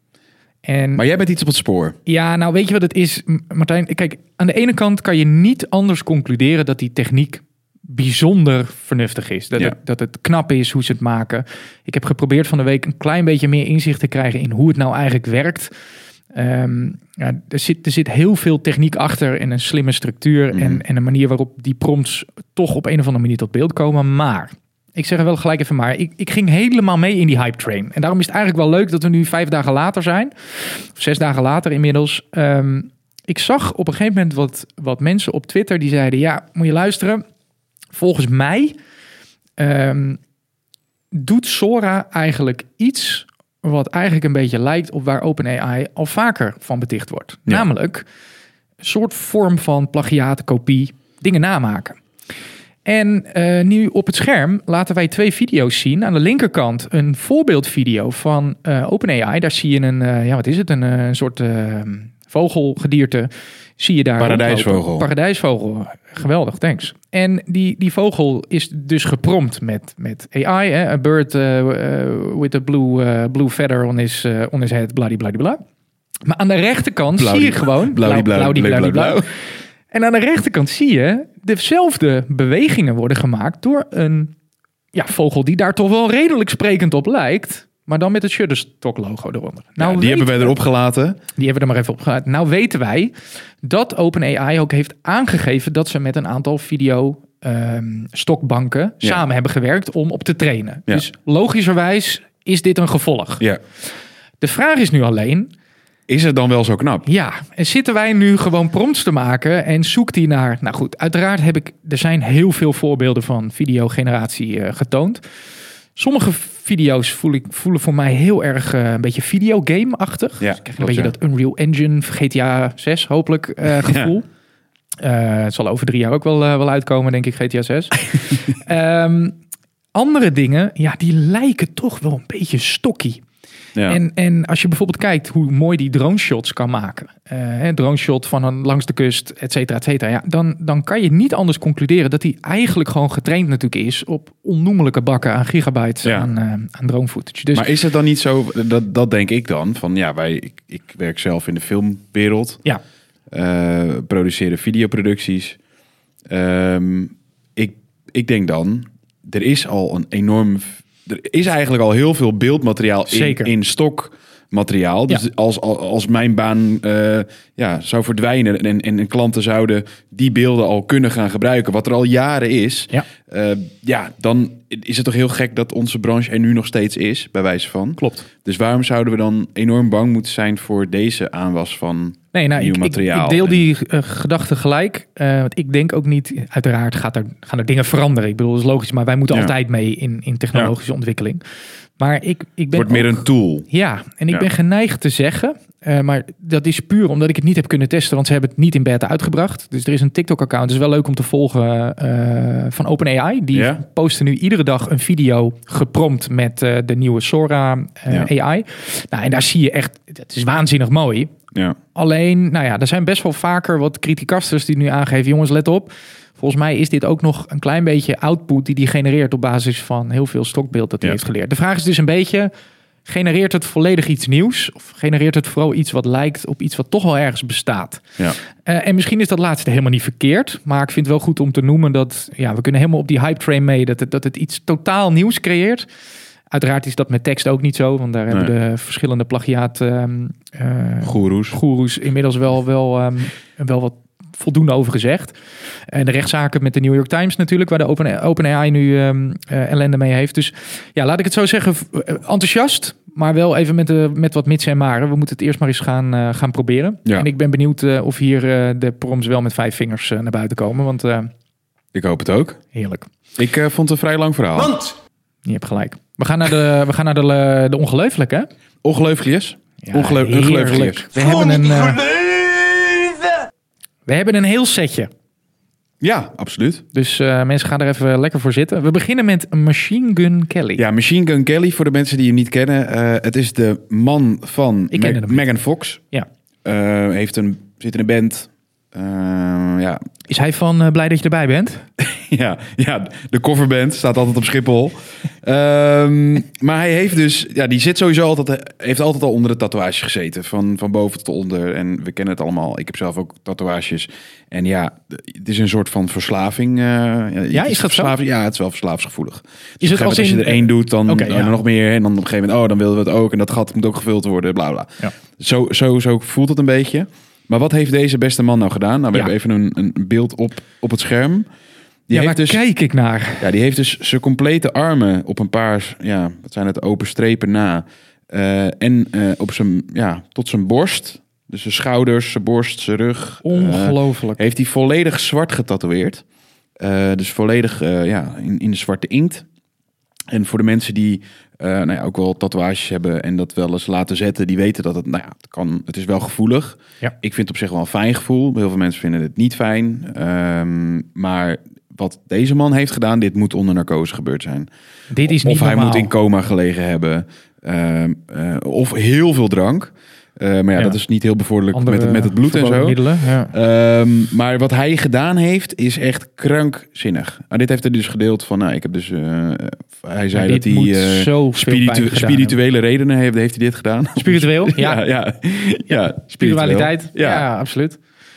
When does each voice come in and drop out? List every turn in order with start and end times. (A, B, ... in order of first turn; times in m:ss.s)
0:00.6-0:01.0 A
0:00.9-0:02.0 B
0:02.0-0:15.7 A
0:16.3-0:37.2 A
0:20.5-0:20.8 B
0:37.9-0:38.8 A
0:39.6-0:40.2 A
0:41.1-0:48.0 A
0:48.8-0:52.0 A
0:52.8-1:15.6 A
1:04.2-1:05.1 B
1:16.2-1:19.3 A
1:17.1-1:19.2 B
1:19.9-1:24.3 A
1:24.9-1:30.6 A
1:29.8-1:31.2 B
1:31.4-1:43.4 A
1:44.4-1:45.5 A
1:46.1-1:47.0 B
1:47.0-1:55.2 A
1:56.0-2:04.2 A
2:00.4-2:01.1 B
2:03.8-2:04.1 B
2:05.0-2:09.4 A
2:09.9-2:13.2 A
2:13.8-2:27.7 A
2:26.0-2:26.3 B
2:27.5-2:32.6 B
2:33.3-2:35.6 B
2:36.3-3:03.6 B
2:43.1-2:43.5 A
2:58.0-2:58.3 A
3:02.3-3:11.4 A
3:12.0-3:31.3 A
3:12.7-3:13.7 B
3:23.5-3:23.8 B
3:31.9-3:42.5 A
3:43.0-3:55.9 A
3:56.5-4:21.3 A
4:01.0-4:01.6 B
4:21.9-4:22.6 B
4:22.7-4:23.1 A
4:23.4-4:24.9 B
4:25.4-4:28.5 A
4:28.8-4:31.1 B
4:29.8-4:32.2 A
4:34.0-4:35.1 A
4:36.0-4:36.8 B
4:36.9-4:40.8 A
4:40.8-4:46.0 B
4:44.9-4:45.4 A
4:46.6-4:50.0 B
4:50.3-4:51.9 A
4:52.0-5:21.5 B
5:07.5-5:08.1 A
5:09.8-5:11.5 A
5:22.1-5:22.6 B
5:22.1-5:23.5 A
5:23.4-5:36.2 B
5:33.4-5:34.4 A
5:36.8-5:39.4 B
5:40.3-5:54.7 B
5:55.1-5:56.1 A
5:55.3-6:03.0 B
6:01.7-6:03.5 A
6:03.5-6:17.4 B
6:10.3-6:12.6 A
6:14.2-6:15.0 A
6:15.9-6:18.0 A